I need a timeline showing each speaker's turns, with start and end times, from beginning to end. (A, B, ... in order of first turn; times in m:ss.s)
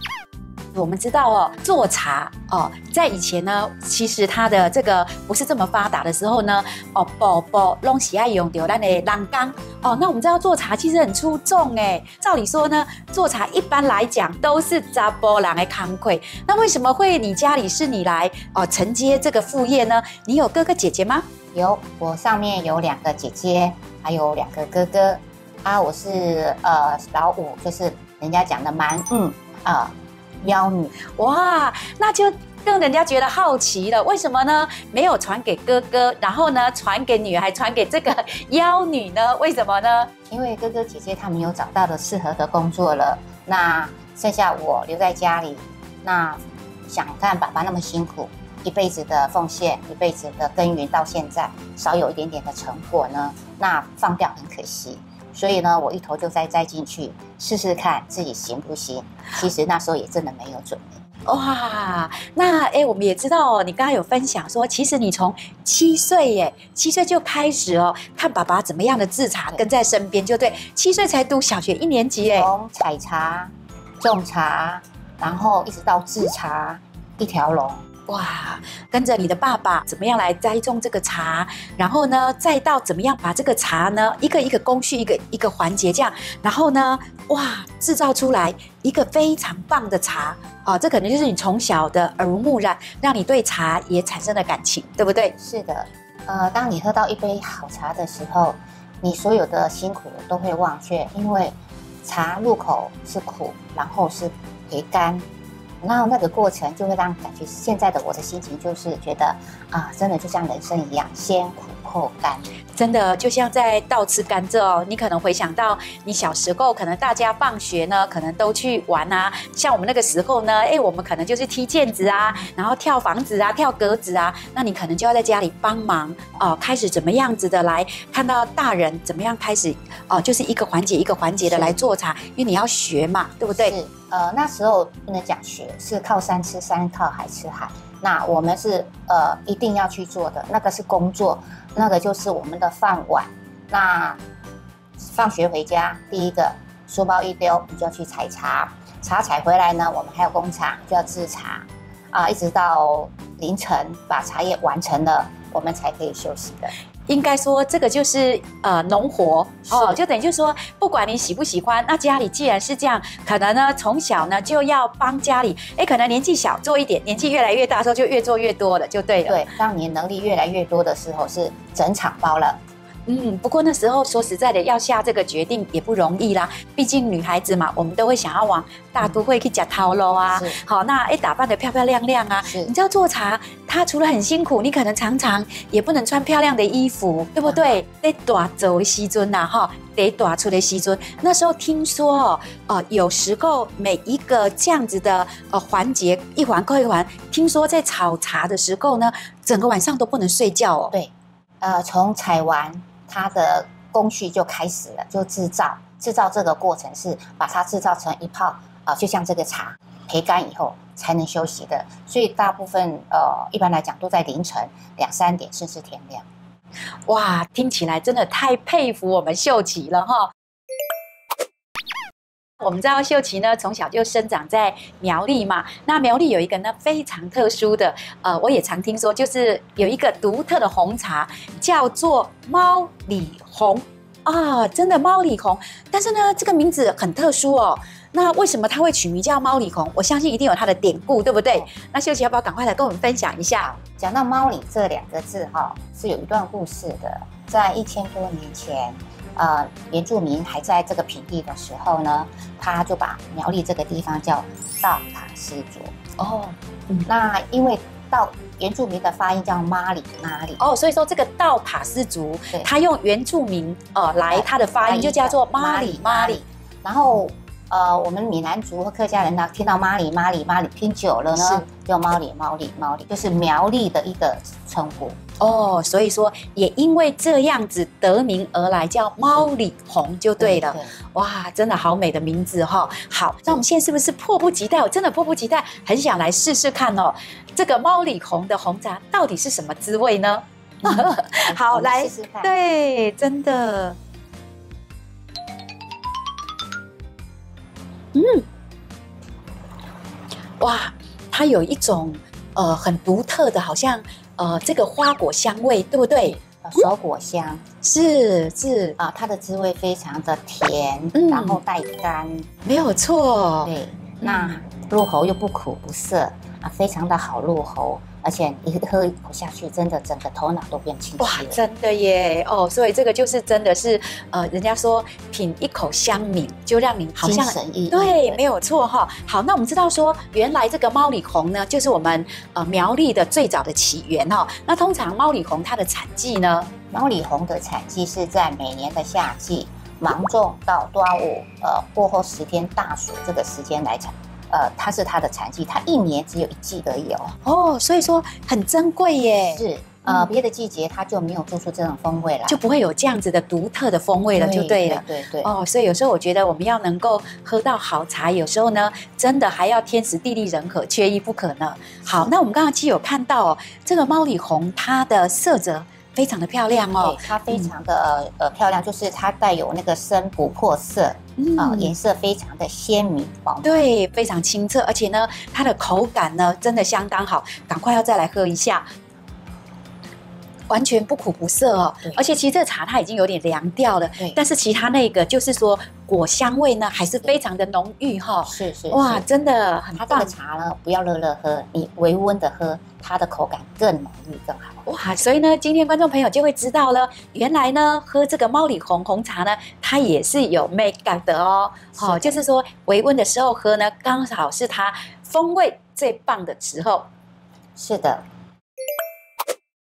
0:00.7-0:21.2 A
0:21.5-0:30.9 B
0:31.0-0:40.1 A
0:40.3-1:01.0 B
1:01.2-1:12.5 A
1:12.2-1:17.8 B
1:18.1-1:35.3 A
1:35.4-1:45.2 B
1:45.8-1:52.5 B
1:52.7-2:13.7 A
2:11.4-2:11.8 B
2:13.5-2:24.2 B
2:25.0-2:36.7 B
2:37.1-2:49.4 A
2:39.7-2:40.0 B
2:49.2-2:52.6 B
2:53.1-3:20.9 A
3:00.3-3:00.6 B
3:02.4-3:02.7 B
3:20.9-3:36.2 B
3:37.1-3:40.3 A
3:42.6-4:03.7 A
4:03.6-4:16.0 B
4:16.2-4:17.1 A
4:17.0-4:20.6 B
4:20.6-4:26.4 A
4:24.2-4:35.2 B
4:31.4-4:31.6 A
4:35.4-4:54.0 A
4:40.4-4:40.9 B
4:50.8-4:52.5 B
4:58.1-4:58.4 A
5:00.6-5:06.4 A
5:06.5-5:07.6 B
5:07.8-5:09.0 A
5:09.0-5:12.5 B
5:11.1-5:11.6 A
5:12.6-5:14.6 A
5:13.6-5:21.6 B
5:21.2-5:36.7 A
5:27.2-5:28.4 B
5:36.9-5:47.3 B
5:47.4-5:50.2 A
5:49.4-5:52.6 B
5:52.5-6:07.7 A
5:54.3-5:55.5 B
6:02.0-6:02.3 B
6:07.0-6:13.8 B
6:11.4-6:11.9 A
6:13.6-6:18.8 A
6:20.7-6:30.3 A
6:28.4-6:29.2 B
6:29.9-6:34.9 B
6:34.8-6:47.0 A
6:42.0-6:42.4 B
6:47.8-6:48.2 B